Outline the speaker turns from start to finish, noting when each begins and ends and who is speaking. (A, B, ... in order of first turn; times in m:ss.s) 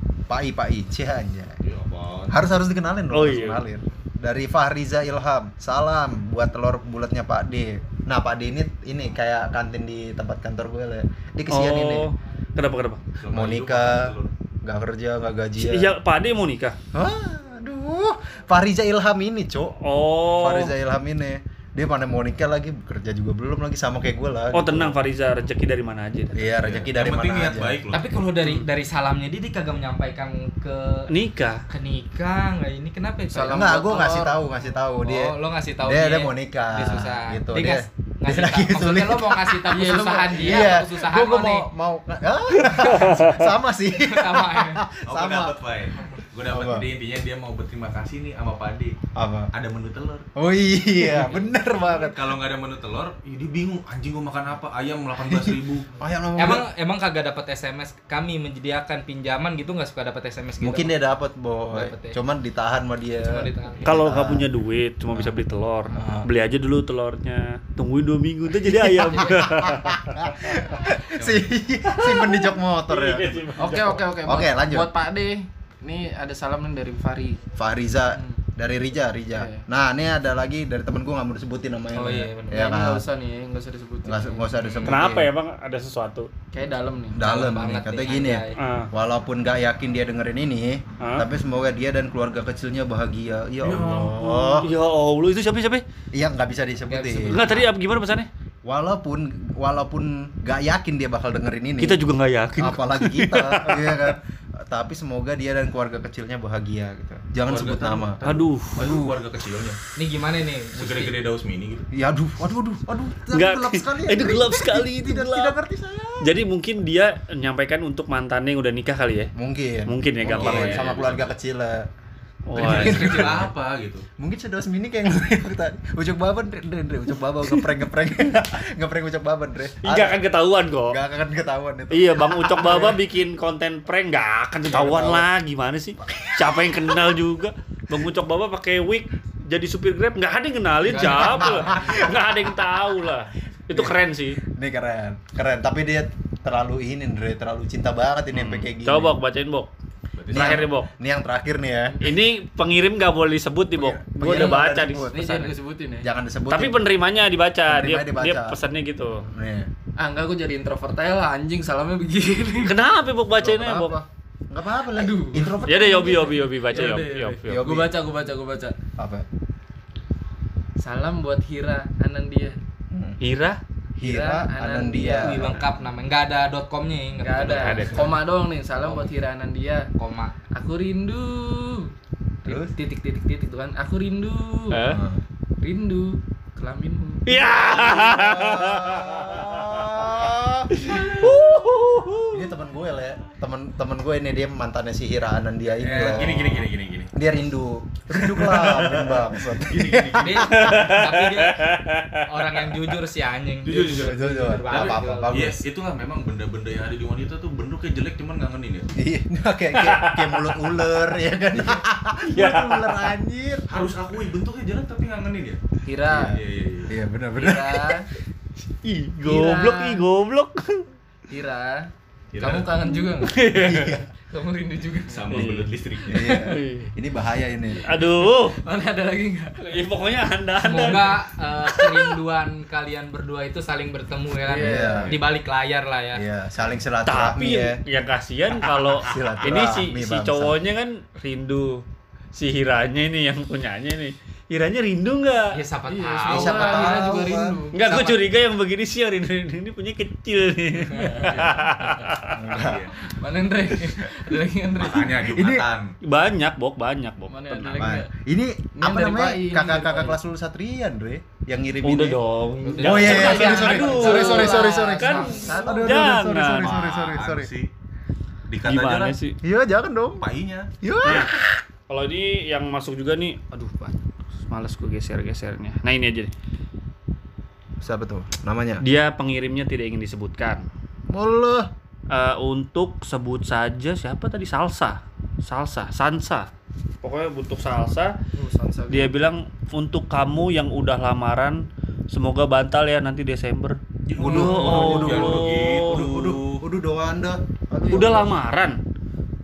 0:00.3-0:01.6 A
0:01.6-0:02.4 B
0:02.3-0:12.1 A
0:03.1-0:03.6 C
0:11.5-0:13.0 C
0:13.2-0:14.3 B
0:13.3-0:15.9 A
0:15.6-0:16.8 C
0:16.9-0:19.8 A
0:19.8-0:20.8 C
0:20.3-0:24.9 A
0:24.5-0:26.4 C
0:26.3-0:27.8 A
0:26.6-0:28.1 B
0:27.9-0:31.1 D
0:28.4-0:28.7 C
0:31.1-0:31.6 C
0:31.7-0:33.6 D
0:33.3-0:34.4 E
0:33.5-0:45.5 A
0:35.0-0:41.7 D
0:39.7-0:40.8 E
0:42.6-0:43.2 D
0:43.9-0:44.8 D
0:45.0-0:49.0 B
0:46.4-0:46.9 A
0:49.1-0:49.5 A
0:49.5-0:50.2 B
0:50.4-0:52.3 A
0:52.0-0:55.9 B
0:55.2-0:56.7 A
0:56.4-1:00.9 D
1:00.6-1:04.5 A
1:01.7-1:02.2 D
1:03.2-1:03.9 D
1:03.8-1:10.5 C
1:05.1-1:05.4 A
1:05.9-1:06.3 A
1:08.5-1:13.5 A
1:11.8-1:14.0 C
1:13.6-1:17.4 E
1:14.2-1:14.9 A
1:17.6-1:23.0 A
1:18.1-1:18.4 E
1:19.3-1:19.6 E
1:21.9-1:22.7 D
1:22.6-1:24.7 E
1:24.0-1:25.3 A
1:24.8-1:26.3 C
1:26.5-1:27.2 E
1:27.1-1:34.7 A
1:27.2-1:28.6 D
1:28.6-1:28.9 C
1:31.0-1:31.3 C
1:33.6-1:34.7 B
1:34.5-1:35.8 C
1:36.1-1:37.4 A
1:36.9-1:37.7 D
1:37.3-1:38.3 C
1:38.6-1:42.0 A
1:41.8-1:44.1 C
1:42.6-1:49.2 A
1:47.5-1:49.8 B
1:48.2-1:48.8 C
1:50.0-1:51.2 D
1:50.8-1:51.8 B
1:51.9-1:56.4 A
1:53.3-1:55.6 C
1:56.2-1:59.3 C
1:59.4-2:01.9 A
1:59.8-2:00.8 C
2:00.2-2:01.3 B
2:02.5-2:03.4 C
2:02.6-2:03.5 A
2:02.6-2:04.1 B
2:04.2-2:10.2 A
2:09.8-2:11.0 C
2:10.9-2:13.0 A
2:11.9-2:24.4 C
2:14.7-2:15.3 A
2:16.0-2:17.2 A
2:20.8-2:22.7 A
2:20.9-2:21.6 B
2:23.7-2:29.2 A
2:28.3-2:29.7 C
2:30.2-2:30.7 B
2:30.3-2:32.1 A
2:30.3-2:30.9 C
2:32.0-2:35.5 C
2:33.7-2:35.3 A
2:34.2-2:34.6 E
2:35.1-2:36.1 E
2:36.0-2:36.8 A
2:36.5-2:39.3 C
2:37.7-2:38.6 A
2:39.3-2:39.7 A
2:40.0-2:42.8 E
2:42.6-2:44.0 C
2:43.4-2:48.0 A
2:44.9-2:48.8 E
2:45.6-2:47.6 C
2:49.0-2:49.2 A
2:50.8-2:52.6 E
2:52.9-2:53.2 A
2:53.2-2:53.6 C
2:54.0-2:55.5 A
2:54.0-2:55.5 E
2:55.2-2:58.1 D
2:57.2-2:59.9 E
2:57.5-2:58.2 C
2:58.8-2:59.1 D
3:00.0-3:00.4 D
3:00.5-3:01.9 E
3:02.4-3:02.7 A
3:02.4-3:04.8 E
3:04.7-3:05.0 C
3:04.9-3:05.2 A
3:05.6-3:07.4 E
3:07.2-3:12.5 C
3:07.7-3:11.4 A
3:12.3-3:20.8 A
3:15.8-3:16.2 D
3:15.9-3:17.1 B
3:18.1-3:20.4 B
3:20.2-3:25.5 D
3:20.4-3:22.2 C
3:23.6-3:28.9 B
3:23.8-3:25.6 A
3:29.0-3:33.7 A
3:29.8-3:30.8 C
3:32.3-3:33.1 C
3:33.7-3:35.6 B
3:35.8-3:36.4 E
3:36.0-3:37.9 A
3:36.1-3:36.9 B
3:37.3-3:38.1 E
3:38.8-3:40.8 C
3:39.2-3:40.0 E
3:41.3-3:43.4 E
3:42.3-3:42.7 B
3:43.2-3:44.0 C
3:43.5-3:44.0 A
3:44.2-3:45.4 E
3:45.1-3:46.5 B
3:45.3-3:46.9 C
3:46.1-3:47.9 A
3:47.8-3:48.6 C
3:48.3-3:49.6 E
3:49.6-3:52.2 C
3:50.6-3:56.2 D
3:54.4-3:55.2 E
3:54.6-3:55.2 A
3:56.1-3:57.8 A
3:57.0-4:01.8 C
3:58.9-4:00.6 A
4:02.3-4:05.6 C
4:05.5-4:07.1 D
4:05.9-4:07.8 E
4:06.3-4:07.6 A
4:07.7-4:12.4 C
4:07.8-4:08.2 D
4:10.8-4:12.0 E
4:12.3-4:12.9 A
4:12.5-4:13.0 B
4:13.0-4:15.2 E
4:14.7-4:15.9 B
4:15.1-4:15.7 A
4:16.0-4:18.0 C
4:17.3-4:18.1 E
4:17.8-4:22.2 A
4:18.7-4:20.2 E
4:21.8-4:26.7 C
4:22.6-4:23.8 D
4:22.8-4:25.6 E
4:22.8-4:27.5 A
4:24.9-4:25.7 D
4:26.6-4:27.7 B
4:28.5-4:29.2 B
4:28.6-4:29.4 C
4:29.4-4:30.2 A
4:30.2-4:30.7 B
4:30.8-4:31.6 A
4:31.0-4:31.3 C
4:31.9-4:34.0 C
4:34.5-4:36.3 C
4:37.8-4:38.8 A
4:38.8-4:40.7 C
4:41.1-4:41.7 A
4:42.1-4:46.5 C
4:47.0-4:48.1 C
4:48.3-4:49.2 E
4:48.9-4:56.0 C
4:54.1-4:56.6 B
4:54.2-4:58.4 A
4:57.9-4:58.8 C